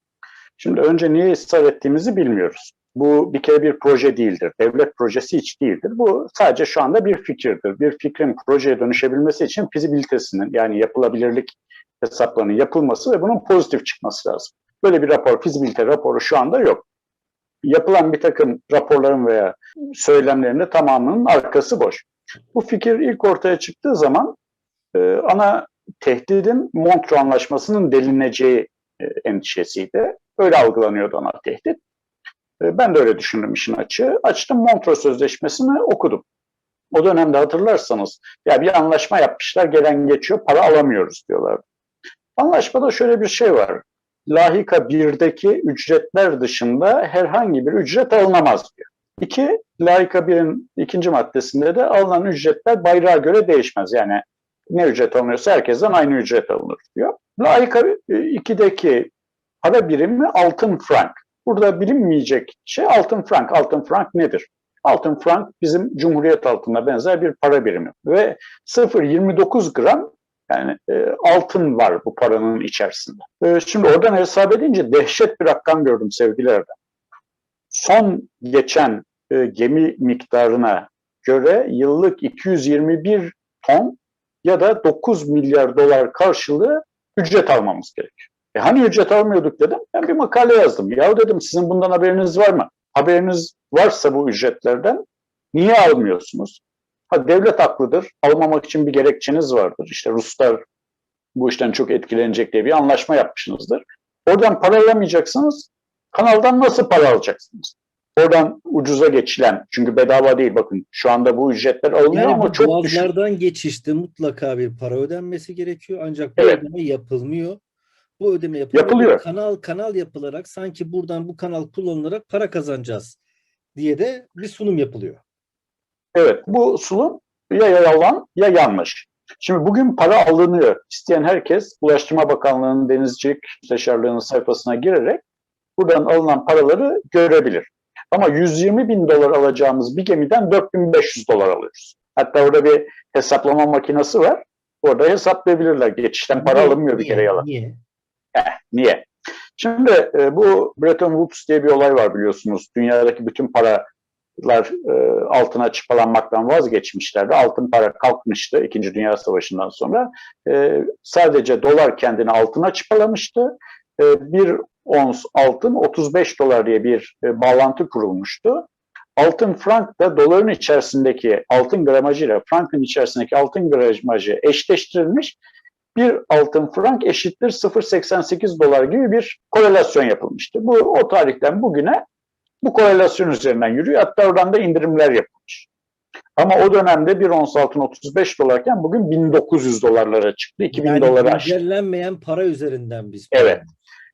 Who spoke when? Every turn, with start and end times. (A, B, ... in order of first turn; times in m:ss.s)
0:00.6-0:16.9 A
0:17.6-0:24.4 A
0:24.9-0:31.8 A
0:32.6-0:36.2 A
0:36.9-0:41.6 A
0:42.4-0:59.1 A
0:59.6-1:16.7 A
1:17.7-1:35.0 A
1:35.5-1:40.6 A
1:41.4-1:53.1 A
1:52.1-1:57.6 B
1:58.2-2:03.2 B
1:58.7-1:59.2 A
2:03.8-2:05.2 B
2:06.2-2:15.2 A
2:15.8-2:27.4 A
2:26.4-2:27.8 B
2:28.4-2:33.9 A
2:34.4-2:55.4 A
2:56.0-3:02.0 A
3:02.6-3:05.7 A
3:06.4-3:11.6 A
3:10.7-3:13.7 B
3:13.3-3:13.6 A